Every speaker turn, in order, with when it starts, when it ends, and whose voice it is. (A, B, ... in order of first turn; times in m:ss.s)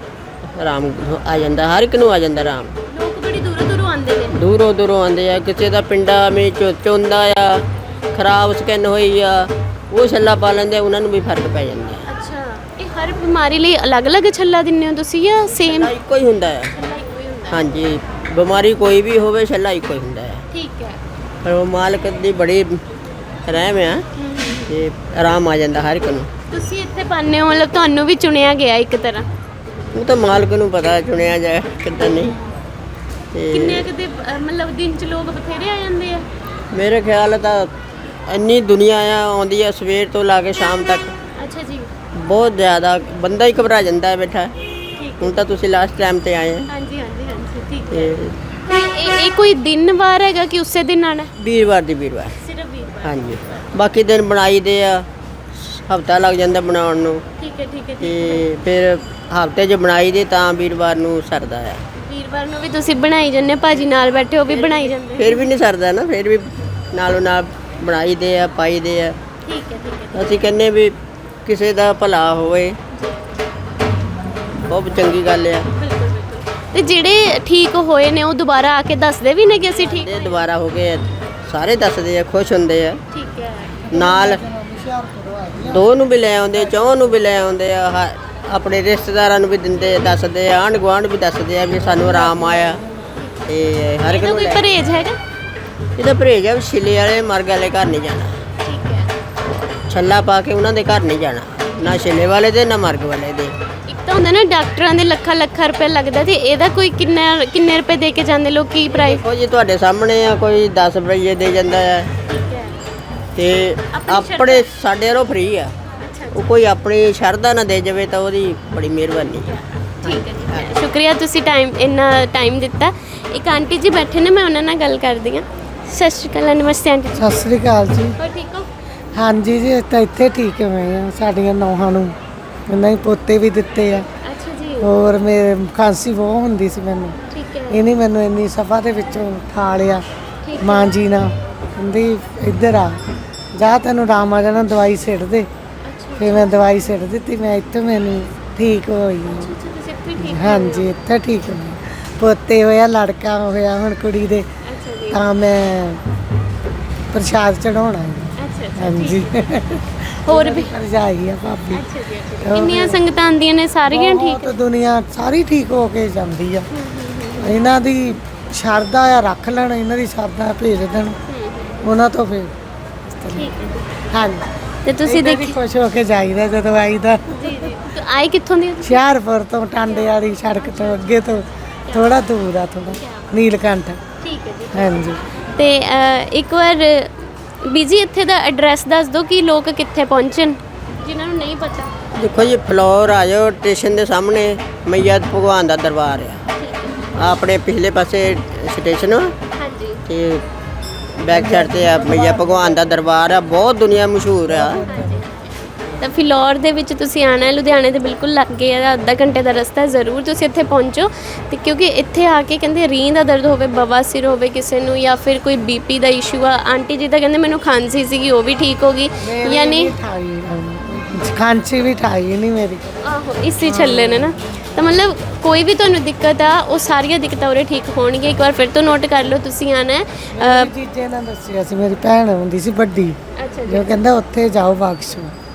0:00.5-0:02.7 A
0:02.9-0:04.4 B
0:04.3-0:12.0 A
0:12.0-0:15.9 B
0:15.5-0:16.7 A
0:16.7-0:17.7 B
0:17.5-0:20.4 A
0:20.5-0:21.0 B
0:21.4-0:22.8 A
0:23.5-0:24.0 A
0:24.2-0:24.7 B
0:24.6-0:26.3 A
0:26.5-0:29.3 B
0:29.9-0:32.4 A
0:33.3-0:33.9 A
0:33.5-0:36.2 B
0:36.7-0:37.7 A
0:38.3-0:41.1 A
0:41.4-0:41.9 B
0:42.1-0:44.5 A
0:45.0-0:45.4 B
0:45.2-0:46.7 A
0:46.7-0:51.3 B
0:47.9-0:48.4 A
0:51.4-0:52.3 A
0:52.4-0:53.7 B
0:53.0-0:57.2 A
0:57.4-0:58.4 B
0:58.0-1:01.8 A
1:01.9-1:05.5 B
1:04.5-1:09.2 A
1:09.4-1:10.4 B
1:10.1-1:12.8 A
1:12.9-1:13.3 B
1:14.6-1:15.7 A
1:15.7-1:20.4 B
1:19.7-1:23.0 A
1:23.1-1:23.8 B
1:23.9-1:25.8 C
1:23.9-1:24.4 A
1:25.6-1:32.8 A
1:26.5-1:27.2 C
1:31.7-1:33.1 C
1:33.4-1:34.6 A
1:34.1-1:35.2 B
1:36.0-1:38.4 A
1:38.6-1:39.1 B
1:39.9-1:43.5 A
1:41.8-1:42.1 B
1:43.9-1:49.2 B
1:48.9-1:52.1 A
1:52.2-1:52.8 B
1:53.4-1:55.7 A
1:53.9-1:54.7 B
1:56.0-1:56.4 B
1:56.3-2:00.7 A
1:59.4-2:07.4 B
2:07.2-2:08.2 C
2:08.2-2:08.7 B
2:09.1-2:12.2 C
2:12.7-2:14.1 C
2:14.2-2:14.9 B
2:14.8-2:17.2 C
2:17.3-2:17.8 B
2:17.7-2:20.0 C
2:20.4-2:20.9 B
2:20.6-2:23.0 C
2:23.6-2:25.5 C
2:25.8-2:26.8 B
2:26.2-2:29.5 C
2:29.3-2:30.9 B
2:30.2-2:34.4 C
2:34.6-2:35.2 B
2:35.1-2:36.0 C
2:37.1-2:41.8 C
2:38.4-2:40.7 B
2:41.7-2:44.5 B
2:42.4-2:43.0 C
2:43.9-2:46.7 C
2:46.7-2:47.6 B
2:47.4-2:51.2 C
2:51.3-2:51.8 B
2:51.8-2:52.5 C
2:53.1-2:53.5 C
2:53.3-2:54.1 B
2:54.1-2:54.5 C
2:54.8-2:55.6 B
2:55.0-2:57.7 C
2:57.3-2:59.0 B
2:58.8-3:04.0 C
2:59.8-3:01.3 B
3:01.8-3:02.3 B
3:02.9-3:03.3 B
3:04.2-3:11.9 B
3:04.7-3:05.2 C
3:12.1-3:16.4 A
3:16.5-3:17.1 B
3:17.1-3:19.3 A
3:19.5-3:20.0 B
3:20.0-3:20.4 A
3:21.2-3:24.8 A
3:21.3-3:23.0 C
3:24.5-3:25.3 C
3:24.8-3:39.9 B
3:39.2-3:43.0 C
3:43.0-3:50.7 B
3:43.6-3:44.9 C
3:50.3-3:55.3 C
3:53.4-3:54.0 B